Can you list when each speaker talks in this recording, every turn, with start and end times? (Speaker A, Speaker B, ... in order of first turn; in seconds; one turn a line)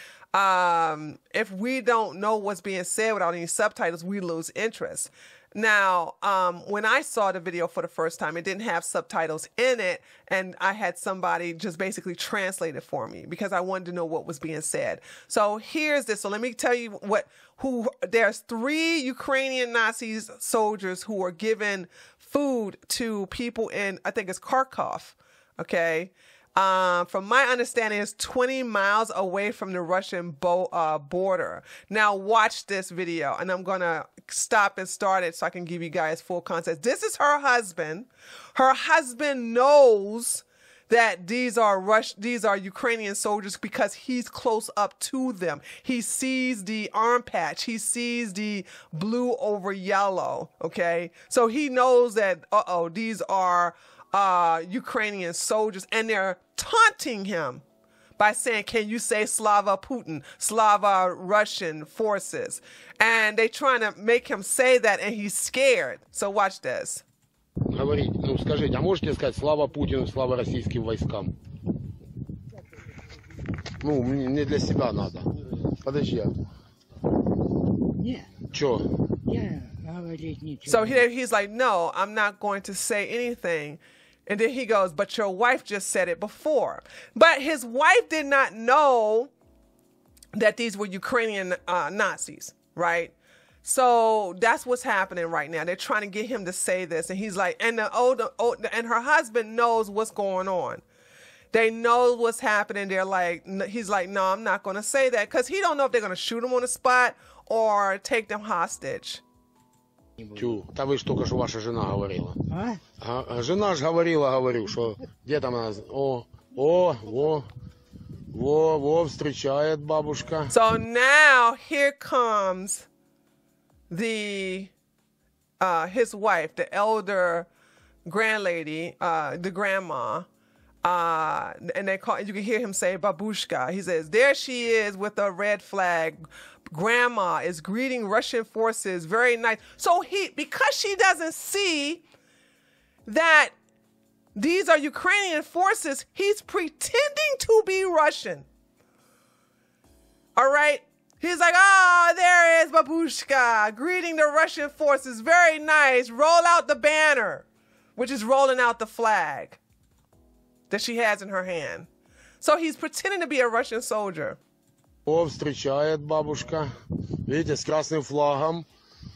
Speaker A: 0.3-57.6
Speaker A: 58.2-67.0
Speaker B: 67.7-71.4
Speaker B: 73.8-75.3
Speaker B: 75.8-76.3
Speaker C: 78.0-78.3
Speaker B: 78.5-78.9
Speaker C: 79.3-81.0
Speaker A: 80.7-89.3
Speaker A: 90.3-100.8
Speaker A: 101.5-109.2
Speaker C: 110.2-110.6
Speaker B: 110.4-112.4
Speaker C: 112.5-112.8
Speaker B: 113.0-117.5
Speaker B: 118.3-120.6
Speaker A: 120.5-122.9
Speaker A: 123.9-124.7
Speaker A: 125.6-127.5
Speaker A: 128.1-130.3
Speaker A: 130.8-142.0
Speaker A: 143.1-143.5
Speaker A: 144.3-148.5
Speaker A: 150.4-157.4
Speaker A: 158.0-159.6
Speaker A: 160.7-161.9
Speaker A: 162.4-164.4
Speaker B: 165.1-166.7
Speaker B: 167.3-168.7